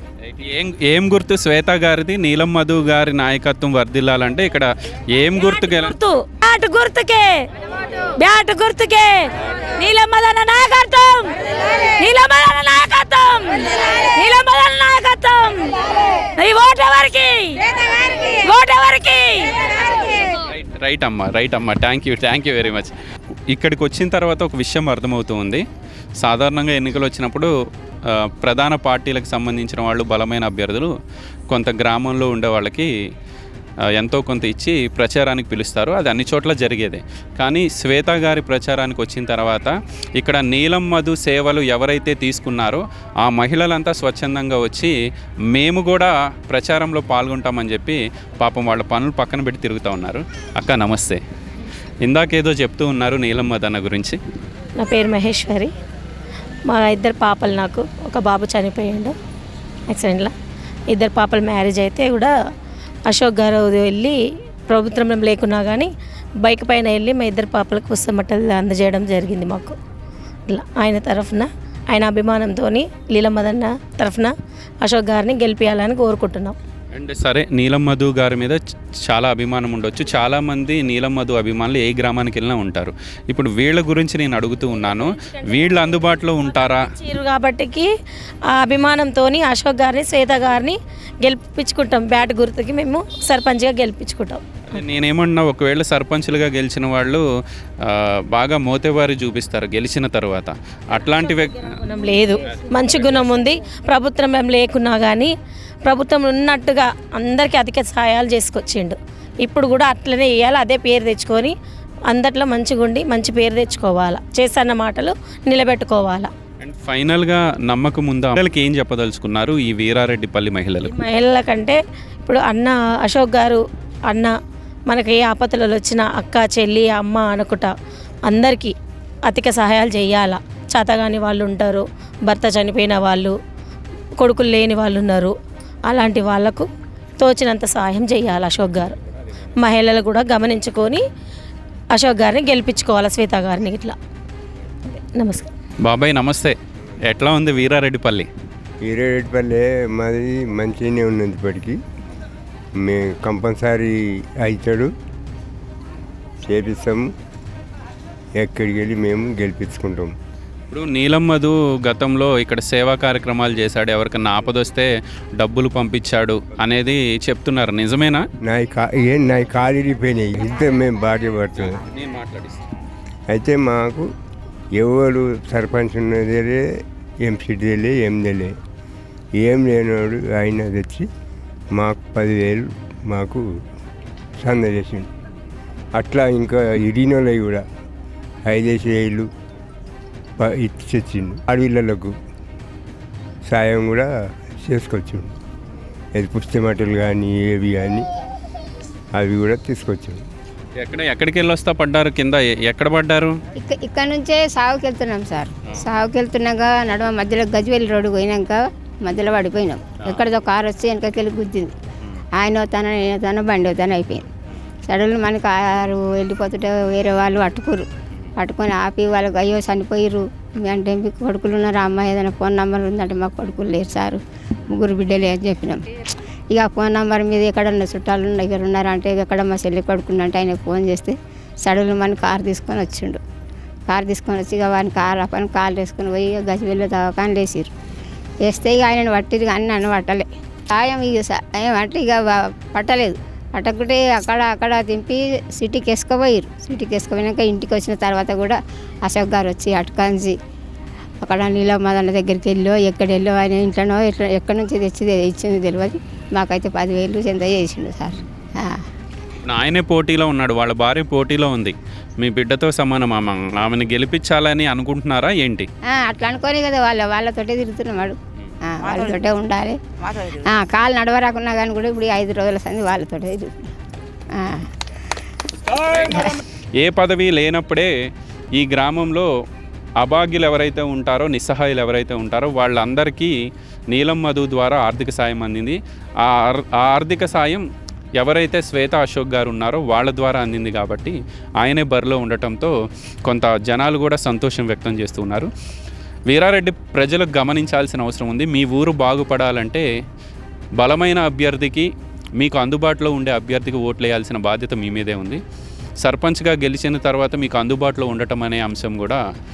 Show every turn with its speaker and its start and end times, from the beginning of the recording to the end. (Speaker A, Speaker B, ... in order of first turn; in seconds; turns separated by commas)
Speaker A: 0.3-5.9, Speaker B: 5.4-7.3, Speaker B: 8.2-9.2, Speaker B: 9.8-11.3, Speaker B: 12.0-15.7, Speaker B: 16.4-17.6, Speaker B: 18.1-20.2, Speaker A: 20.5-22.9, Speaker A: 23.5-25.6, Speaker A: 26.2-27.5, Speaker A: 28.1-30.9, Speaker A: 31.5-32.9, Speaker A: 34.0-44.9, Speaker A: 45.5-51.2, Speaker A: 52.0-54.2, Speaker C: 54.8-55.7, Speaker C: 56.7-59.2, Speaker C: 59.9-60.3, Speaker C: 60.9-62.3, Speaker C: 63.0-69.8, Speaker C: 70.5-76.6, Speaker A: 76.9-86.9, Speaker C: 85.2-87.9, Speaker C: 88.5-94.4, Speaker A: 94.7-97.2, Speaker A: 97.8-101.8, Speaker C: 101.6-116.3, Speaker A: 102.5-103.5, Speaker A: 116.6-121.0, Speaker C: 120.8-124.3, Speaker C: 124.9-127.7, Speaker C: 128.2-133.4, Speaker C: 134.2-138.9, Speaker C: 139.6-141.0, Speaker C: 141.9-144.0, Speaker C: 144.8-145.5, Speaker A: 145.8-148.3, Speaker D: 148.8-151.8, Speaker D: 152.8-154.9, Speaker D: 156.4-157.1, Speaker D: 158.4-160.1, Speaker A: 160.7-168.2, Speaker D: 168.4-171.7, Speaker A: 171.5-172.6, Speaker D: 173.3-174.0, Speaker D: 174.7-176.6, Speaker D: 177.2-178.5, Speaker D: 179.4-181.1, Speaker D: 181.7-183.4, Speaker D: 184.4-185.1, Speaker D: 185.9-187.6, Speaker D: 188.5-189.2, Speaker D: 190.4-192.1, Speaker D: 193.5-195.3, Speaker D: 196.1-198.1, Speaker D: 199.1-200.2, Speaker A: 200.8-203.4, Speaker E: 203.6-211.7, Speaker A: 210.0-210.3, Speaker E: 212.4-214.2, Speaker E: 214.9-225.8, Speaker E: 226.5-233.2, Speaker E: 233.9-237.7, Speaker E: 238.4-250.3, Speaker E: 251.2-258.8, Speaker A: 259.4-265.7, Speaker E: 265.9-269.8, Speaker E: 270.4-273.7, Speaker E: 274.3-274.7, Speaker A: 275.7-277.9, Speaker A: 278.6-279.2, Speaker A: 280.0-283.3, Speaker A: 283.9-287.6, Speaker A: 288.2-292.7, Speaker A: 293.2-295.5, Speaker A: 296.3-299.8, Speaker A: 300.8-305.4, Speaker A: 306.0-309.2